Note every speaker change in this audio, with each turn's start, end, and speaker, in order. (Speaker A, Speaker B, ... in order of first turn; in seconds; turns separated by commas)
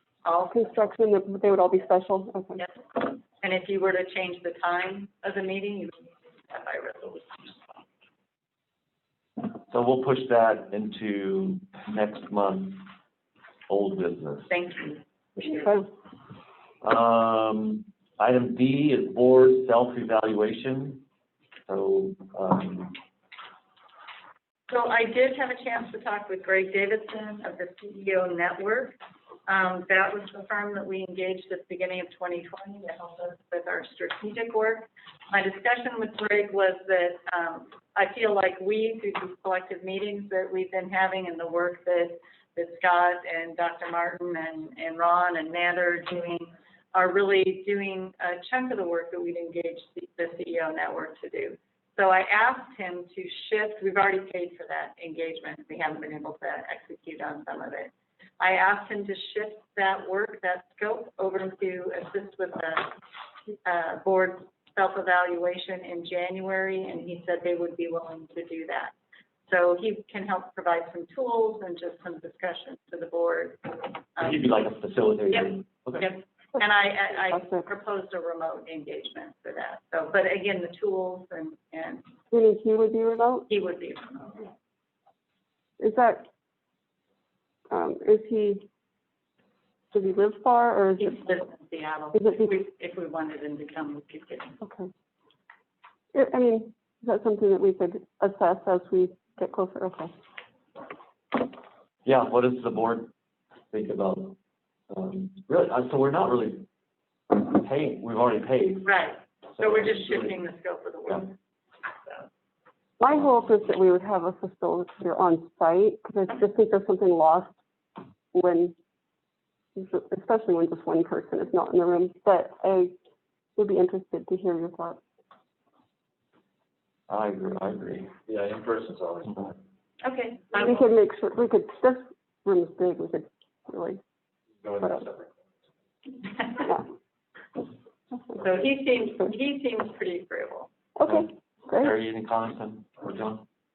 Speaker A: 0.2-0.9, Speaker B: 0.5-2.6, Speaker A: 2.6-7.6, Speaker C: 9.7-12.9, Speaker C: 13.7-14.5, Speaker A: 14.5-15.7, Speaker B: 15.4-15.9, Speaker C: 16.8-21.0, Speaker C: 21.7-23.0, Speaker A: 24.7-62.9, Speaker A: 63.6-68.9, Speaker A: 69.5-74.4, Speaker C: 74.2-76.1, Speaker A: 75.3-82.1, Speaker B: 77.2-77.7, Speaker B: 82.3-83.5, Speaker A: 83.5-84.5, Speaker B: 85.8-86.3, Speaker B: 87.7-88.7, Speaker B: 89.9-91.4, Speaker A: 91.0-94.6, Speaker B: 92.1-92.6, Speaker B: 94.6-94.9, Speaker B: 96.1-100.1, Speaker C: 102.0-103.1, Speaker C: 103.7-104.4, Speaker C: 104.9-106.7, Speaker C: 107.3-108.9, Speaker A: 108.8-111.3, Speaker C: 109.6-110.4, Speaker B: 113.0-117.5, Speaker B: 118.3-118.8, Speaker B: 119.8-122.9, Speaker B: 123.6-125.0, Speaker C: 127.1-128.1, Speaker D: 128.3-129.6, Speaker A: 130.0-130.9, Speaker B: 130.5-134.0, Speaker D: 134.6-135.4, Speaker A: 136.4-136.7, Speaker A: 138.4-140.7, Speaker B: 141.0-142.0, Speaker C: 141.1-143.4